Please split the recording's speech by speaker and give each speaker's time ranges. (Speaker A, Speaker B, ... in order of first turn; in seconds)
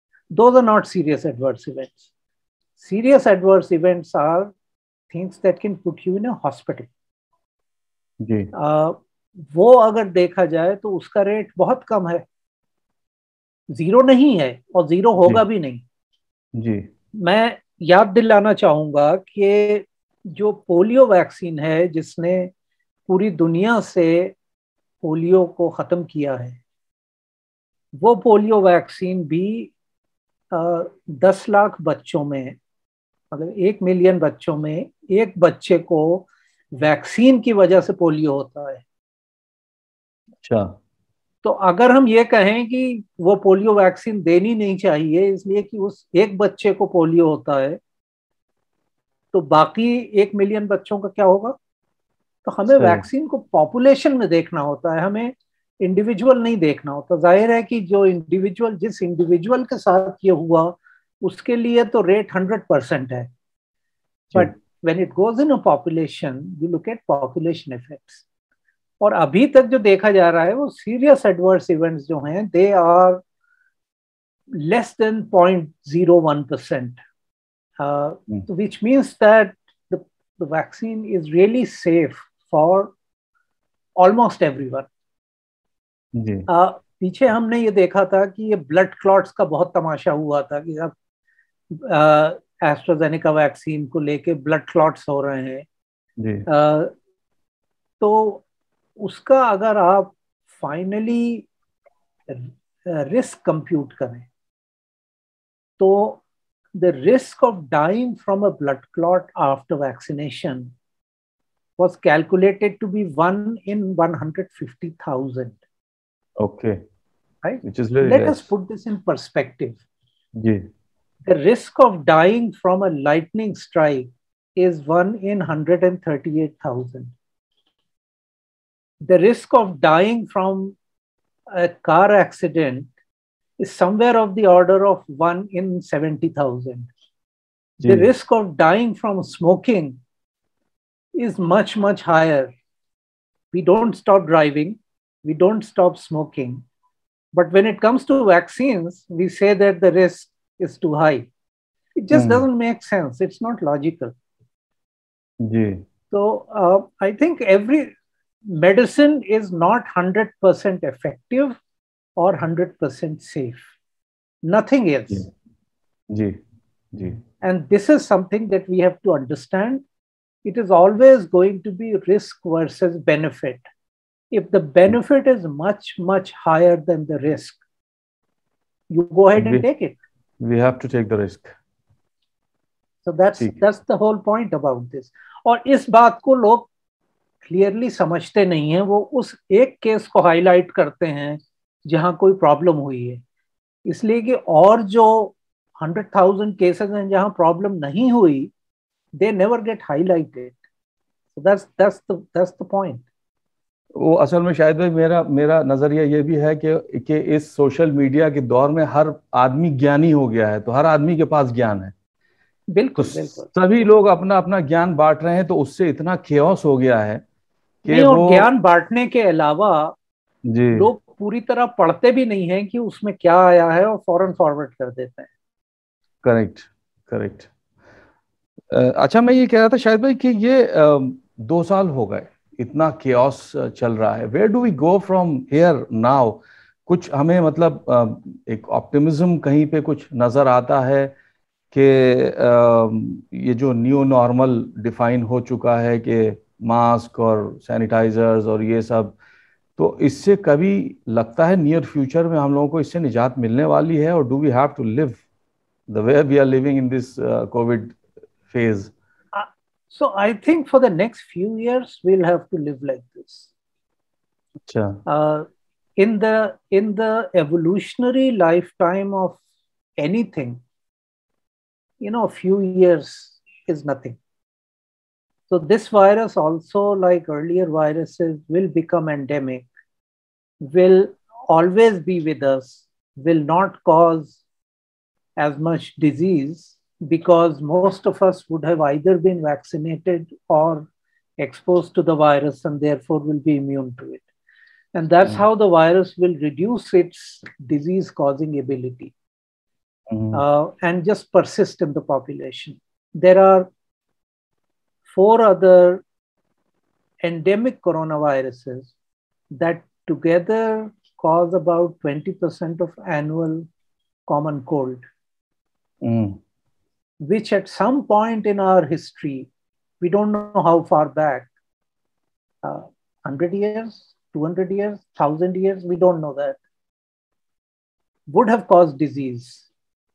Speaker A: 0.3-2.0, 2.8-4.5, 5.1-6.9, 8.5-12.2, 13.7-15.8, 17.1-22.5, 23.1-24.3, 25.0-26.6, 27.9-29.7, 30.5-32.5, 33.3-38.8, 41.4-47.8, 49.3-51.5, 52.4-63.3, 64.3-68.2, 69.0-73.2, 74.5-77.0, 77.8-82.9, 84.0-84.9, 86.5-90.9, 91.7-95.6, 96.5-96.9, 98.0-98.4, 99.0-101.5, 102.3-104.3, 105.8-106.2, 106.8-110.7, 111.8-115.6, 117.4-119.8, 121.2-127.1, 129.0-130.8, 131.5-132.9, 133.6-136.9, 137.9-140.0, 141.1-142.5, 143.5-146.6, 147.3-151.3, 152.0-154.1, 156.1-157.9, 158.5-161.6, 162.2-163.6, 164.4-165.2, 167.4-169.8, 170.4-173.6, 174.3-177.6, 178.9-180.0, 183.0-186.7, 187.5-193.2, 193.9-198.5, 199.2-200.6, 201.3-203.0, 212.7-213.5, 217.9-219.9, 220.7-225.3, 259.3-263.5, 265.1-269.4, 270.0-270.6, 272.0-274.2, 275.5-279.6, 280.6-284.4, 285.4-290.9, 291.4-294.2, 294.9-299.1, 300.3-303.7, 305.1-306.0, 307.2-308.9, 309.5-313.7, 314.3-315.0, 317.2-319.5, 320.0-321.5, 322.6-326.6, 328.3-329.7
Speaker B: 8.2-8.5, 16.6-16.9, 40.4-40.8, 52.7-53.0, 86.1-86.5, 96.2-96.5, 116.4-116.8, 117.6-118.5, 120.4-120.7, 137.8-138.1, 152.1-152.4, 155.4-155.8, 166.1-166.4, 166.9-167.2, 179.4-179.6, 180.4-181.5, 203.9-211.9, 213.0-217.2, 217.8-218.5, 220.5-220.9, 226.2-227.5, 228.7-241.1, 241.7-249.2, 249.8-255.2, 255.9-258.9, 264.6-265.0, 300.1-300.4, 316.0-316.4